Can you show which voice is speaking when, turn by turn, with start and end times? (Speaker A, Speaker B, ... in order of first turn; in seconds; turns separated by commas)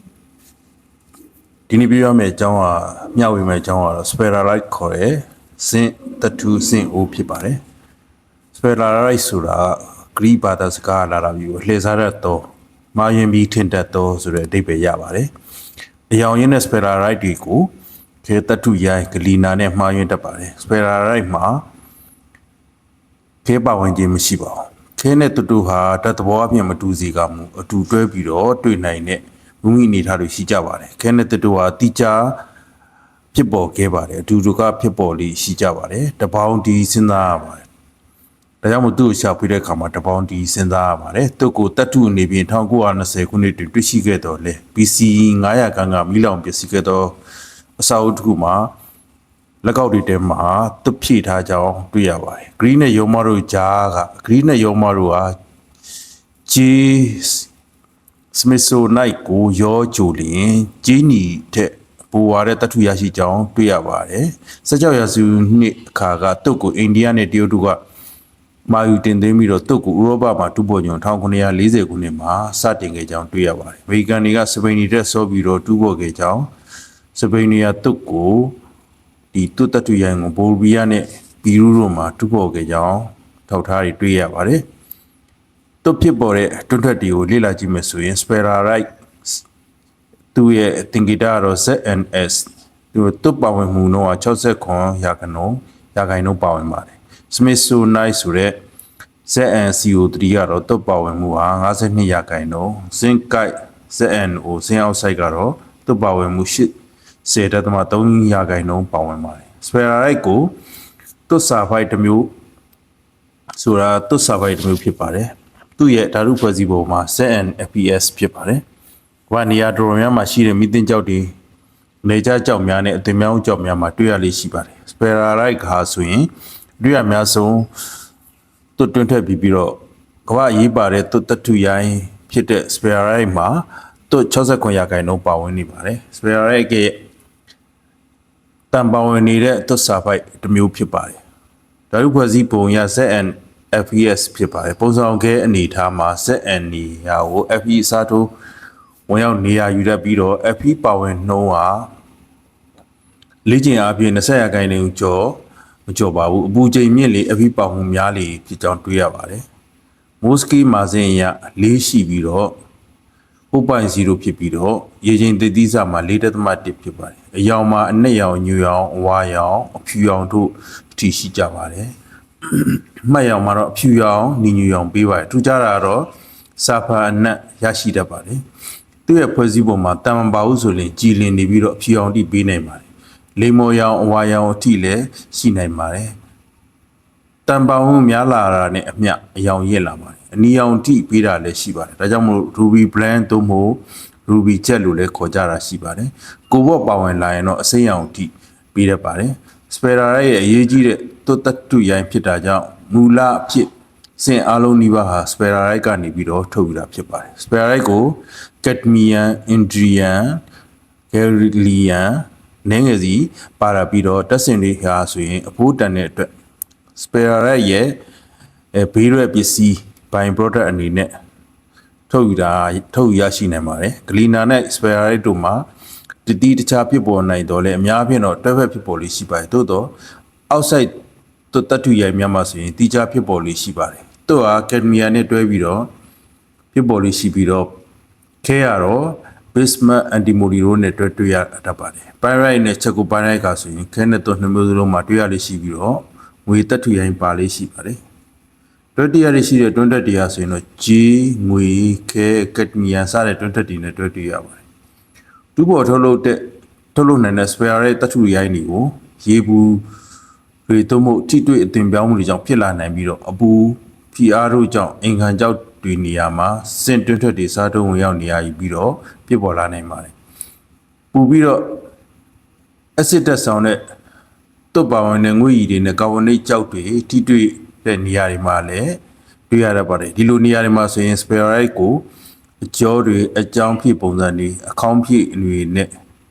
Speaker A: 1.7-7.6, Speaker A: 8.5-15.3, Speaker A: 16.1-17.7, Speaker A: 18.2-21.6, Speaker A: 23.4-32.4, Speaker A: 33.3-37.7, Speaker A: 38.6-47.2, Speaker A: 47.8-48.7, Speaker A: 49.6-55.3, Speaker A: 56.5-57.5, Speaker A: 58.3-67.8, Speaker A: 68.7-76.5, Speaker A: 77.1-78.6, Speaker A: 79.3-84.6, Speaker A: 85.8-89.4, Speaker A: 90.3-98.6, Speaker A: 99.2-106.7, Speaker A: 107.2-110.5, Speaker A: 111.3-112.3, Speaker A: 113.5-118.6, Speaker A: 119.3-121.3, Speaker A: 122.0-127.7, Speaker A: 128.8-137.0, Speaker A: 138.7-141.2, Speaker A: 141.9-148.3, Speaker A: 149.1-151.9, Speaker A: 153.4-159.4, Speaker A: 160.2-162.6, Speaker A: 163.5-171.9, Speaker A: 172.4-178.4, Speaker A: 179.1-186.1, Speaker A: 187.4-210.4, Speaker A: 211.1-216.3, Speaker A: 216.9-218.0, Speaker A: 218.7-221.1, Speaker A: 222.1-225.6, Speaker A: 226.2-229.9, Speaker A: 230.5-230.9, Speaker A: 231.5-235.9, Speaker A: 236.7-237.8, Speaker A: 238.4-248.0, Speaker A: 248.9-254.6, Speaker A: 255.6-259.8, Speaker A: 260.7-270.1, Speaker A: 271.1-271.9, Speaker A: 273.0-273.8, Speaker A: 274.7-282.1, Speaker A: 282.6-285.9